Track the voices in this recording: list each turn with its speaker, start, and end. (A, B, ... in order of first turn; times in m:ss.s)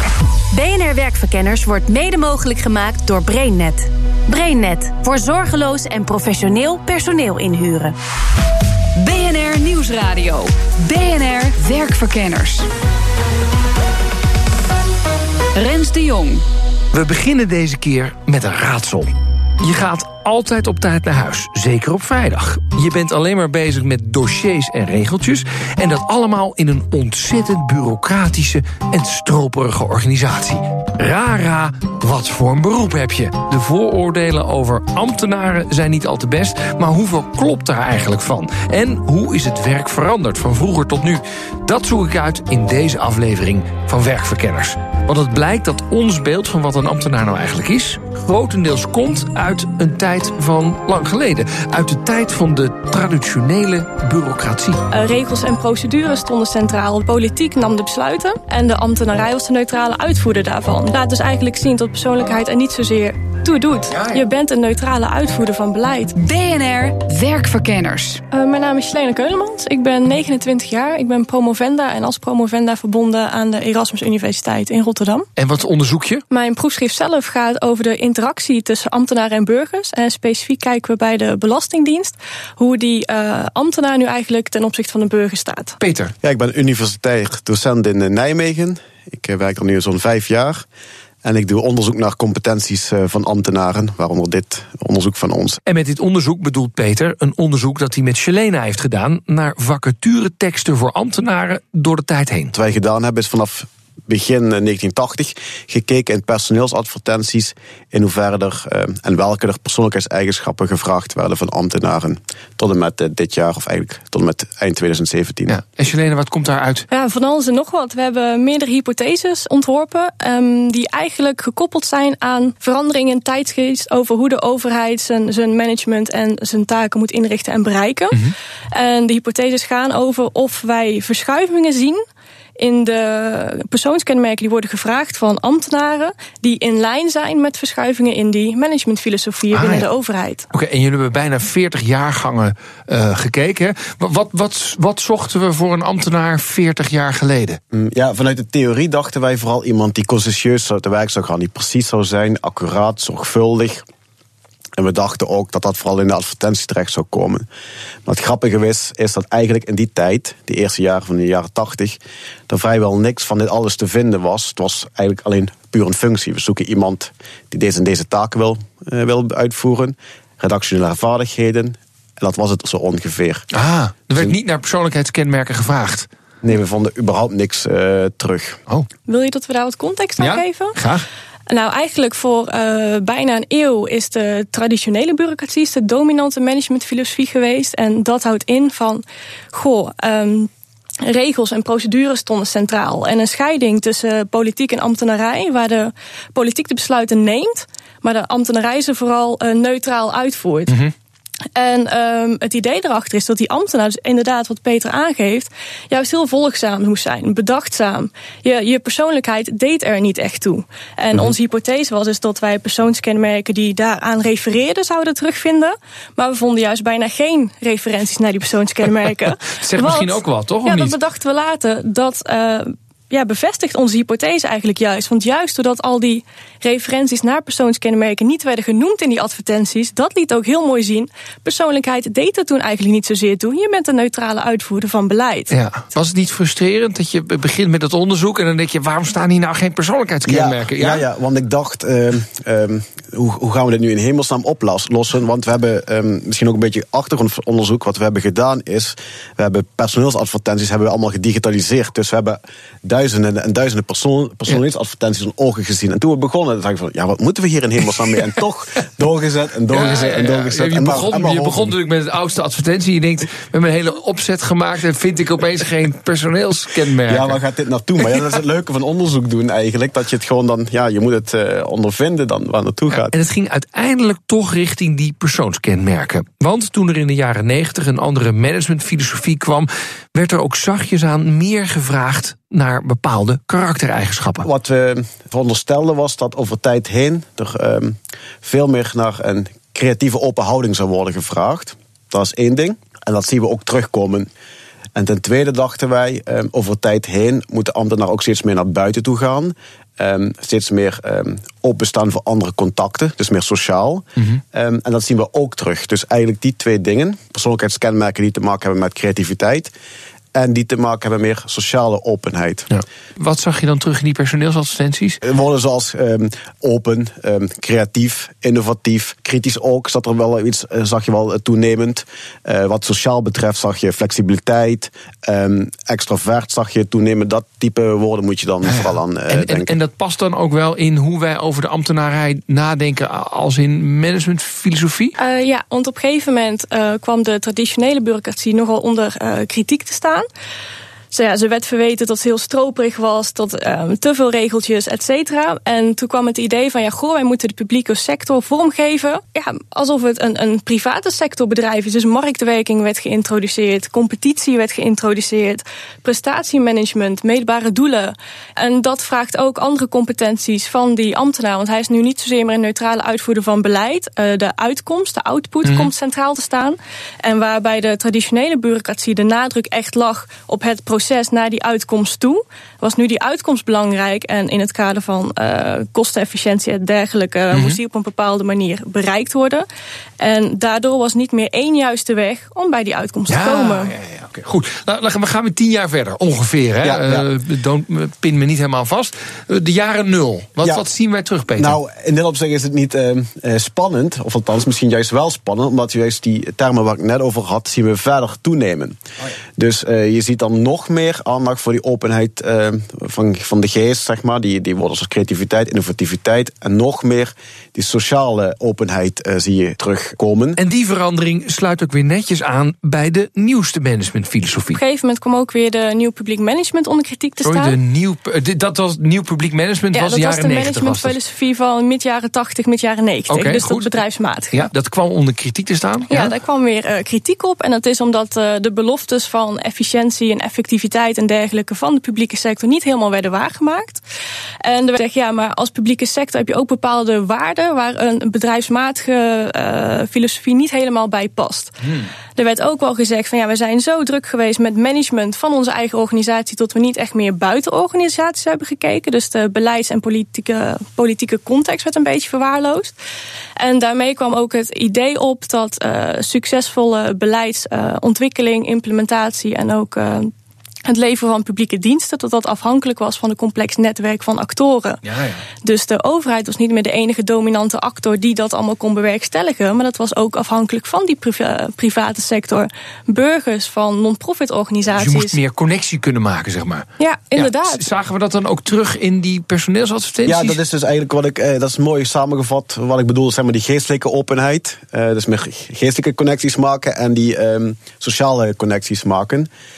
0:00.5-0:07.9 A
0:09.0-0:12.7 B
0:15.5-0:16.4 B
0:16.9-0:19.1 C
0:19.6-0:54.8 C
0:54.9-1:06.1 D
1:03.9-1:04.2 C
1:06.1-1:08.2 B
1:08.3-1:15.3 D
1:15.4-1:16.2 C
1:16.3-1:25.8 D
1:25.8-1:26.1 C
1:26.2-1:30.6 E
1:31.2-1:35.6 E
1:35.7-1:42.5 C
1:42.5-1:55.6 E
1:55.5-1:56.9 C
1:56.9-2:12.0 D
2:12.6-2:20.4 D
2:19.5-2:19.9 C
2:20.5-2:27.6 C
2:27.7-2:33.8 E
2:34.8-2:37.5 E
2:38.0-2:53.4 E
2:53.5-2:56.1 C
2:56.4-2:58.6 E
2:59.1-3:00.8 D
3:00.2-3:01.0 C
3:01.5-3:10.5 D
3:11.0-3:20.8 D
3:21.5-3:55.5 D
3:39.6-3:41.0 C
3:55.5-4:01.0 C
4:00.2-4:21.8 E
4:19.7-4:27.4 C
4:27.1-4:33.1 E
4:32.9-4:44.5 C
4:44.4-4:54.3 E
4:54.9-5:09.7 E
5:10.3-5:12.7 E
5:12.7-5:15.2 C
5:15.2-5:29.8 E
5:28.6-5:35.1 C
5:35.2-5:40.3 D
5:41.1-6:19.6 D
6:05.6-6:05.9 C
6:17.5-6:17.8 C
6:20.2-6:23.9 D
6:23.3-6:31.8 C
6:26.8-6:27.3 E
6:31.6-6:39.0 E
6:39.6-6:50.6 E
6:50.6-6:54.8 C
6:54.7-6:57.8 D
6:57.4-7:01.2 C
6:59.9-7:04.7 D
7:03.3-7:04.0 C
7:04.5-7:06.4 C
7:06.1-7:14.0 D
7:14.6-7:32.9 D
7:33.6-7:40.3 D
7:40.8-7:45.0 D
7:45.0-7:45.4 C
7:45.6-7:55.4 D
7:54.9-8:00.6 C
7:57.0-7:57.8 D
8:00.2-8:09.5 E